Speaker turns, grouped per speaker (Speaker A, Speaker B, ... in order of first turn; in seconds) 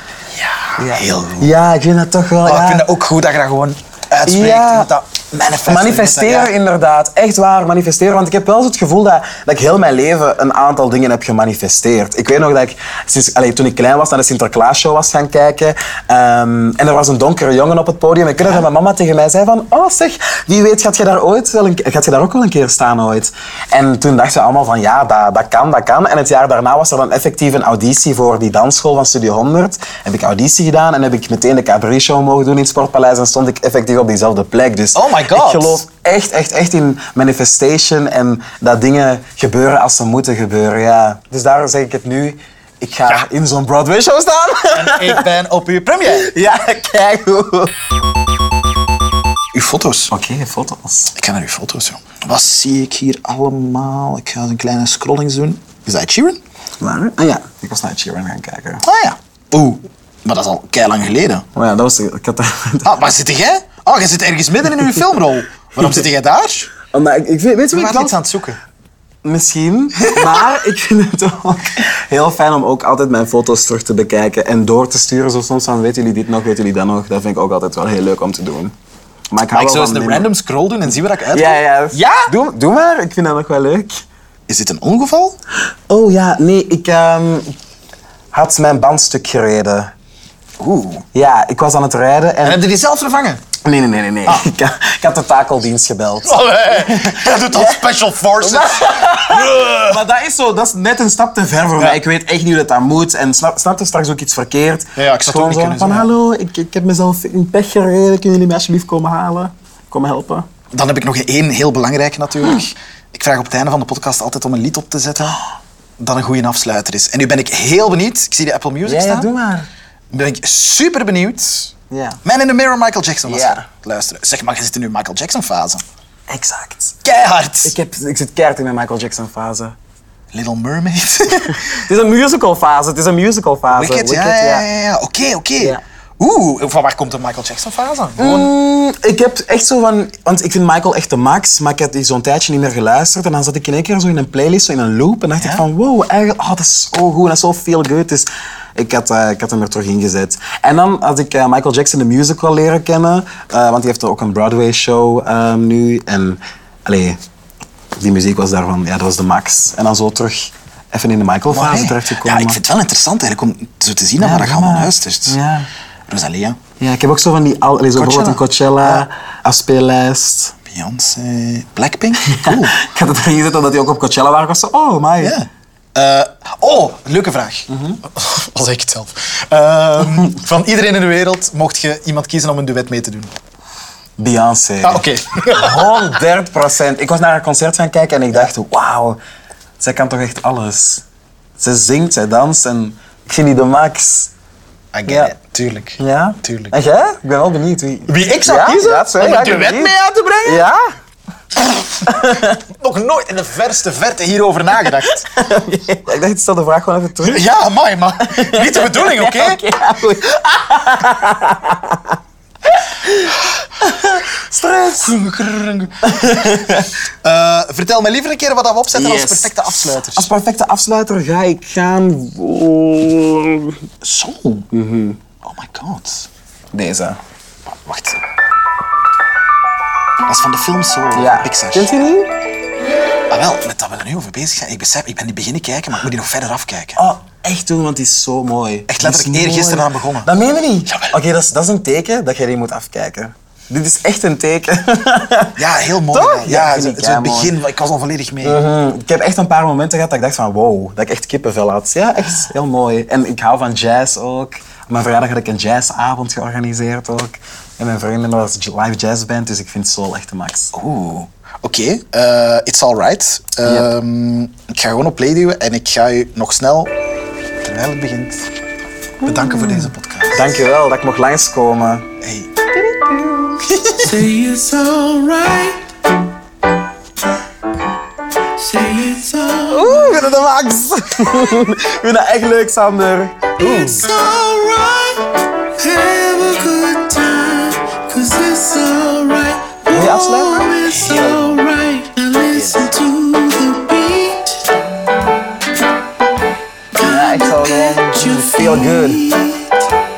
Speaker A: 0.3-1.5, 2.4-6.5, 34.9-35.8, 44.7-46.3, 49.5-50.1, 51.1-56.4, 58.8-61.5, 62.8-66.7, 67.7-68.6, 70.0-70.3, 79.5-82.3, 84.5-85.4, 90.6-91.0, 92.4-93.4, 96.2-100.0, 105.0-106.1, 110.7-115.4, 116.0-119.3, 120.1-121.7, 122.2-125.8, 127.0-127.8, 130.3-131.7, 133.7-138.5, 145.4-145.7, 161.5-165.4, 166.1-166.6, 168.0-169.1, 170.7-172.8, 175.2-183.3, 184.8-186.0, 194.9-196.7, 198.1-200.7, 201.6-205.3, 207.2-209.6, 214.9-216.0, 217.2-220.3, 224.0-224.7, 225.4-226.3, 227.7-228.2, 230.3-232.1, 233.3-237.0, 238.9-240.3, 240.9-241.2, 245.6-248.6, 260.7-266.9, 267.6-268.5, 269.2-270.6, 272.2-272.5, 290.8-291.6, 292.5-293.0
Speaker B: 0.8-2.9, 4.3-4.9, 5.7-45.3, 46.1-47.7, 50.1-51.1, 56.8-58.8, 61.5-62.9, 66.9-68.1, 69.2-78.7, 79.3-80.3, 81.3-84.0, 85.9-87.5, 88.3-89.9, 91.1-92.6, 93.6-97.8, 98.4-110.5, 118.9-119.7, 121.9-122.2, 123.3-123.7, 126.3-127.0, 127.6-129.8, 131.5-134.7, 138.2-157.2, 158.0-162.6, 164.2-165.7, 166.8-170.6, 172.3-175.4, 177.7-178.0, 184.2-189.2, 189.8-191.0, 191.6-194.3, 195.1-195.3, 196.0-199.9, 200.4-200.9, 202.0-202.6, 205.3-207.5, 208.3-212.2, 212.7-215.1, 216.0-216.9, 218.9-223.8, 224.7-225.2, 226.7-227.2, 231.2-232.3, 237.0-247.6, 248.4-260.7, 269.2-272.1, 272.8-274.1, 279.7-284.1, 289.9-290.8, 297.0-299.3
Speaker C: 274.0-276.2, 278.6-280.2, 283.7-294.7, 297.0-299.7